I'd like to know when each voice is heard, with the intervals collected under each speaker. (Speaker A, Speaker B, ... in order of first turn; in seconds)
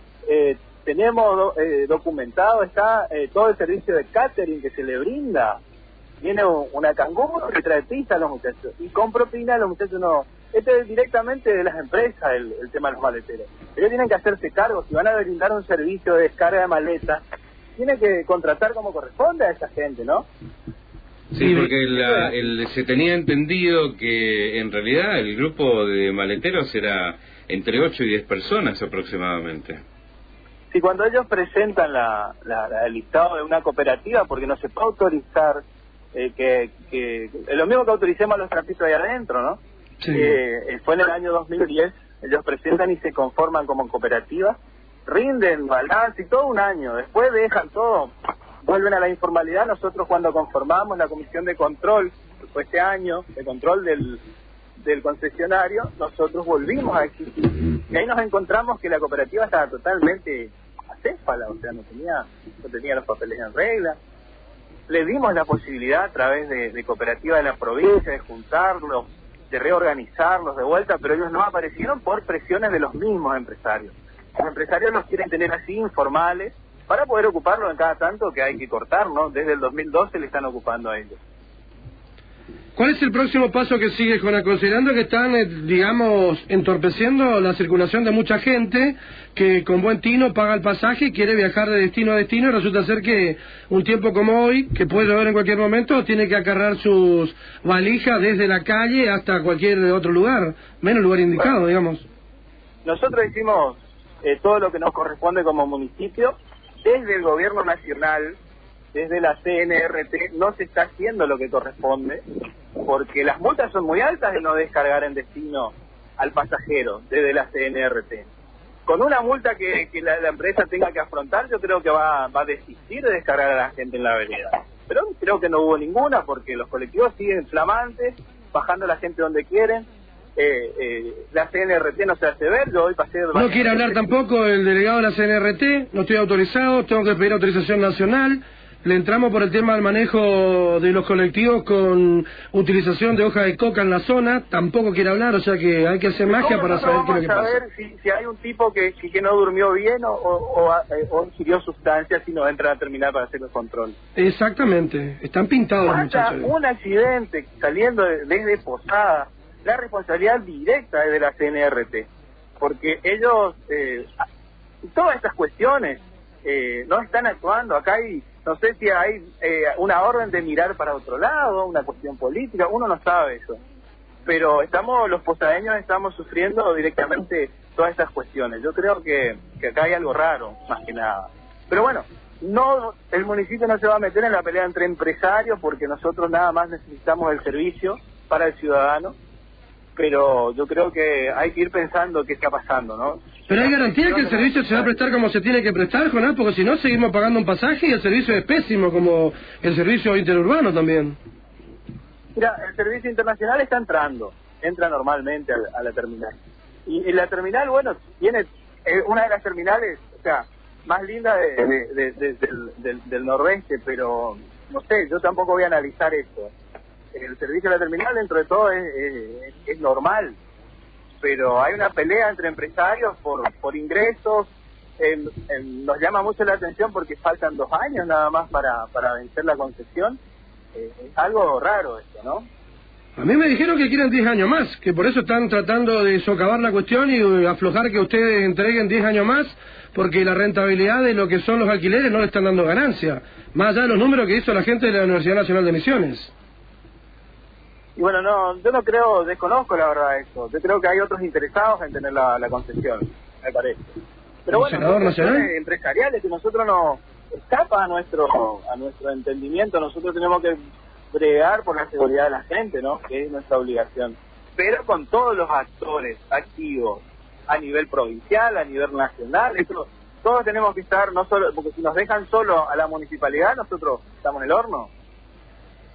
Speaker A: 0.2-5.6, 6.2-17.2, 17.8-20.3, 21.9-22.3, 30.7-35.6, 36.1-39.6, 40.1-48.1, 48.6-54.2, 54.8-64.0, 64.9-81.2, 102.8-108.4, 108.9-112.2, 112.8-118.3, 118.9-134.1, 146.2-154.0, 155.8-164.2, 164.9-173.6, 174.3-189.2, 190.0-195.0, 202.3-216.5, 217.1-220.3, 221.2-230.2, 230.7-232.4, 248.0-260.6, 261.1-274.9
Speaker B: 21.3-29.8
Speaker C: 21.4-21.7, 40.0-40.3, 82.8-102.0, 133.3-147.6, 154.2-156.5, 193.5-201.2, 233.2-246.3, 254.5-255.5